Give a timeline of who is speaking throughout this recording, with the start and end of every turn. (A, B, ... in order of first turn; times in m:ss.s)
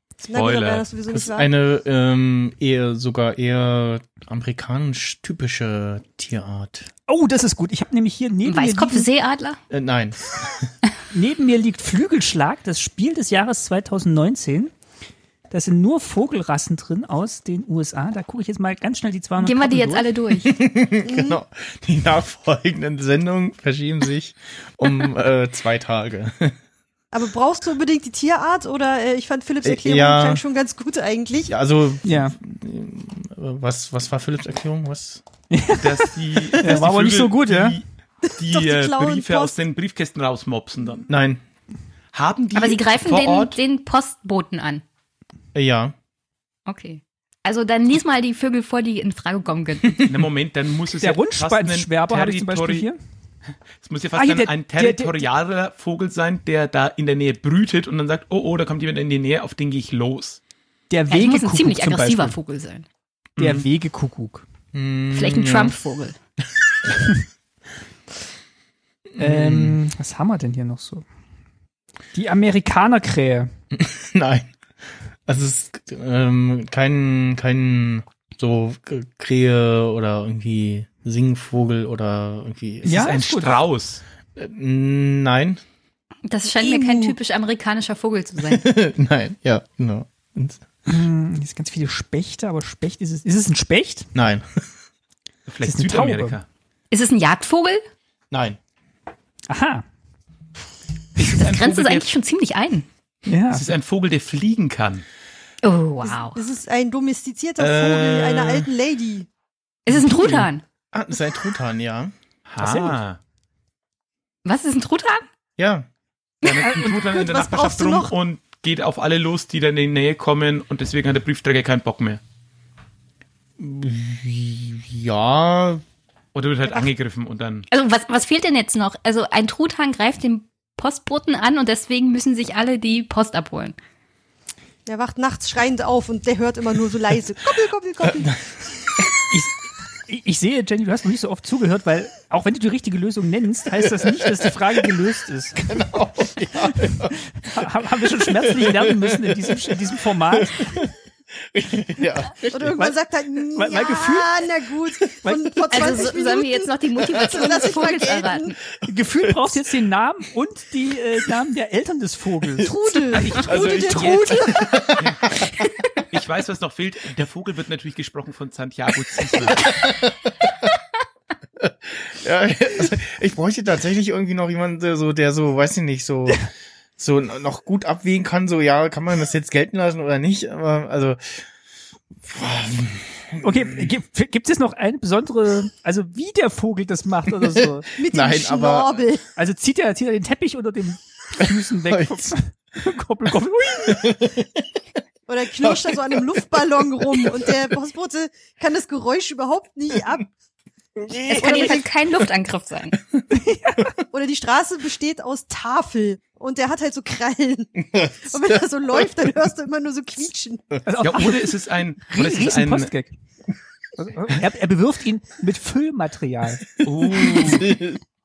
0:00.2-0:01.5 A
0:00.3-0:00.9 B
0:01.1-0:06.9 C
0:07.1-0:09.1 D
0:08.4-0:09.6 E
0:09.7-0:10.7 C
0:11.1-0:14.7 D
0:15.5-0:20.1 D
0:19.4-0:20.6 E
0:20.4-0:26.6 C
0:21.0-0:21.4 A
0:27.1-0:31.5 A
0:29.6-0:30.4 C
0:31.5-0:35.2 C
0:32.0-0:32.4 D
0:35.5-0:37.8 D
0:35.8-0:41.1 B
0:38.4-0:39.5 A
0:41.1-0:41.4 C
0:42.1-0:43.6 B
0:42.5-0:44.8 E
0:45.6-0:46.0 C
0:46.7-0:50.1 E
0:50.1-0:52.9 B
0:51.0-0:53.0 D
0:53.8-1:00.4 B
0:54.1-0:55.3 D
1:00.9-1:02.4 D
1:01.1-1:02.9 E
1:03.4-1:03.6 B
1:03.4-1:04.4 D
1:04.7-1:05.8 C
1:05.1-1:06.2 E
1:09.1-1:09.8 C
1:09.2-1:11.0 D
1:12.1-1:13.5 D
1:13.7-1:14.5 C
1:15.3-1:23.2 C
1:22.8-1:23.6 D
1:22.9-1:24.0 B
1:24.4-1:25.6 C
1:26.3-1:28.7 E
1:28.4-1:30.7 C
1:30.9-1:34.1 D
1:34.2-1:34.6 C
1:35.5-1:36.4 B
1:35.6-1:36.4 D
1:36.9-1:37.8 E
1:38.3-1:38.6 C
1:39.5-1:39.8 D
1:41.2-1:42.1 B
1:41.3-1:42.9 E
1:43.3-1:43.6 D
1:43.5-1:45.0 B
1:45.6-1:46.4 E
1:46.0-1:49.3 A
1:47.6-1:48.7 C
1:49.9-1:50.6 E
1:49.9-1:52.8 C
1:52.5-1:53.2 B
1:54.4-1:55.2 E
1:55.6-1:55.9 C
1:56.4-2:02.2 B
1:56.6-1:56.9 D
1:56.7-1:58.1 A
2:03.6-2:05.8 C
2:06.3-2:07.7 B
2:07.7-2:13.8 E
2:14.9-2:18.4 A
2:18.2-2:19.0 C
2:19.3-2:25.8 D
2:24.0-2:24.8 C
2:25.6-2:32.9 C
2:26.8-2:30.8 D
2:32.5-2:38.6 A
2:32.7-2:34.5 D
2:35.2-2:35.9 D
2:35.7-2:38.6 E
2:38.8-2:39.7 C
2:38.9-2:42.7 D
2:42.6-2:45.0 A
2:43.1-2:45.2 B
2:43.3-2:45.5 C
2:46.1-2:49.8 B
2:49.6-2:50.7 C
2:51.6-3:01.5 C
3:02.2-3:03.9 C
3:03.4-3:07.9 D
3:07.6-3:09.0 C
3:08.0-3:09.2 A
3:09.4-3:14.2 D
3:11.9-3:12.4 C
3:13.8-3:14.6 C
3:15.3-3:20.3 A
3:15.6-3:17.5 C
3:21.0-3:21.7 C
3:21.4-3:23.0 E
3:21.4-3:21.9 A
3:23.3-3:23.9 D
3:24.1-3:30.6 A
3:27.9-3:29.3 C
3:30.9-3:33.1 D
3:31.0-3:32.9 B
3:34.0-3:36.6 D
3:36.8-3:37.7 B
3:37.2-3:38.0 C